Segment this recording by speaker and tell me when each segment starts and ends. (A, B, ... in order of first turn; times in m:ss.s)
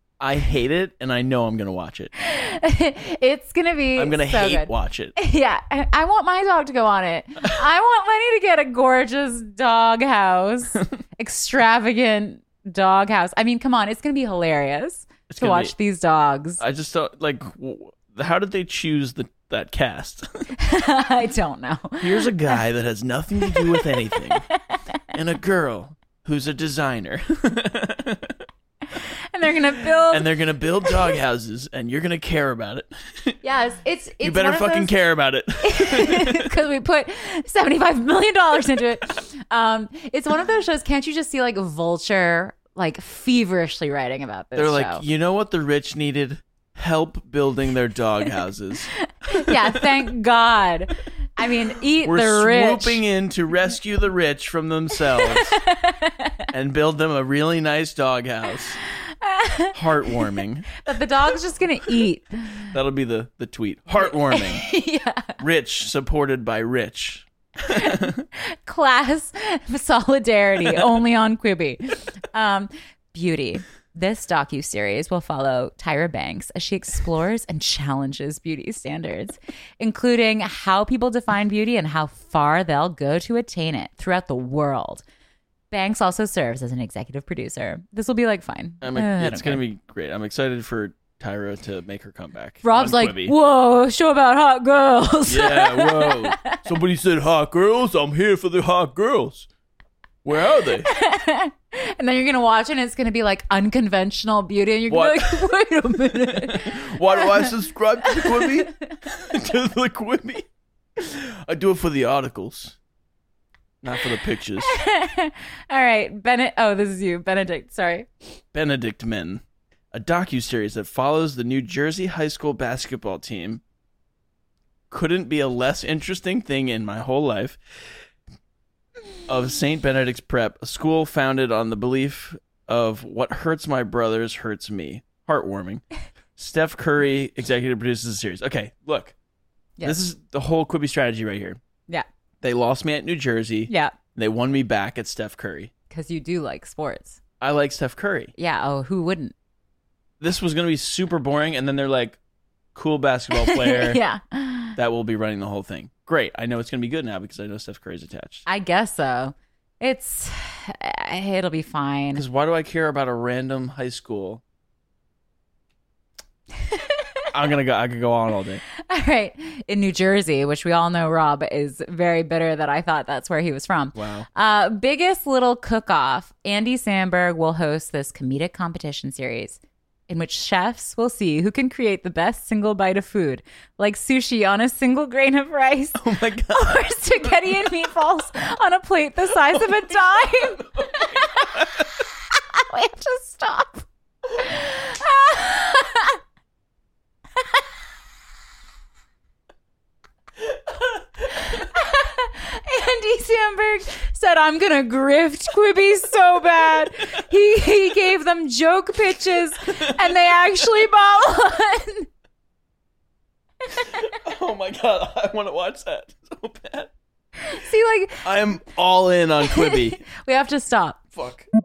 0:00.2-0:02.1 A
0:02.2-0:16.6 B
0:04.0-0:05.1 A
0:15.3-0:15.7 A
0:16.6-0:20.4 A
0:20.6-0:22.3 B
0:22.0-0:24.4 A
0:23.5-0:24.8 B
0:25.1-0:28.4 A
0:28.9-0:30.3 B
0:30.1-0:33.4 A
0:33.4-0:35.0 B
0:34.2-0:36.5 A
0:35.6-0:45.0 B
0:44.6-0:49.9 A
0:49.0-0:53.0 B
0:52.0-0:55.6 A
0:55.0-0:56.4 B
0:56.5-0:58.8 A
0:59.1-0:59.7 B
0:59.7-1:00.7 A
1:00.8-1:02.7 B
1:02.7-1:04.7 A
1:04.3-1:05.4 B
1:05.4-1:08.2 A
1:07.6-1:25.0 B
1:25.7-1:29.6 B
1:28.8-1:33.3 A
1:32.6-1:36.7 B
1:35.3-1:39.5 A
1:40.2-1:40.9 A
1:40.8-1:47.5 B
1:44.9-1:45.5 A
1:46.1-1:52.8 A
1:48.0-1:48.8 B
1:53.8-1:54.8 A
1:54.6-1:58.1 B
1:58.5-2:03.6 A
2:04.9-2:07.6 A
2:09.3-2:15.8 A
2:16.4-2:19.2 A
2:19.8-2:21.6 A
2:22.4-2:25.7 A
2:23.7-2:24.0 B
2:25.9-2:27.2 B
2:27.4-2:28.3 A
2:28.4-2:29.3 B
2:30.2-2:32.2 A
2:32.7-2:34.0 A
2:33.3-2:34.8 B
2:34.8-2:38.4 A
2:38.4-2:42.2 B
2:42.1-2:44.4 A
2:46.6-2:47.2 B
2:47.3-2:48.6 A
2:48.8-3:16.2 B
2:54.0-2:54.2 A
3:06.0-3:07.5 A
3:09.5-3:11.9 A
3:17.4-3:17.6 B
3:21.2-3:32.1 B
3:29.8-3:30.7 A
3:33.7-3:36.9 A
3:37.4-3:38.2 B
3:38.2-3:40.0 A
3:39.4-3:41.0 B
3:41.2-3:41.4 A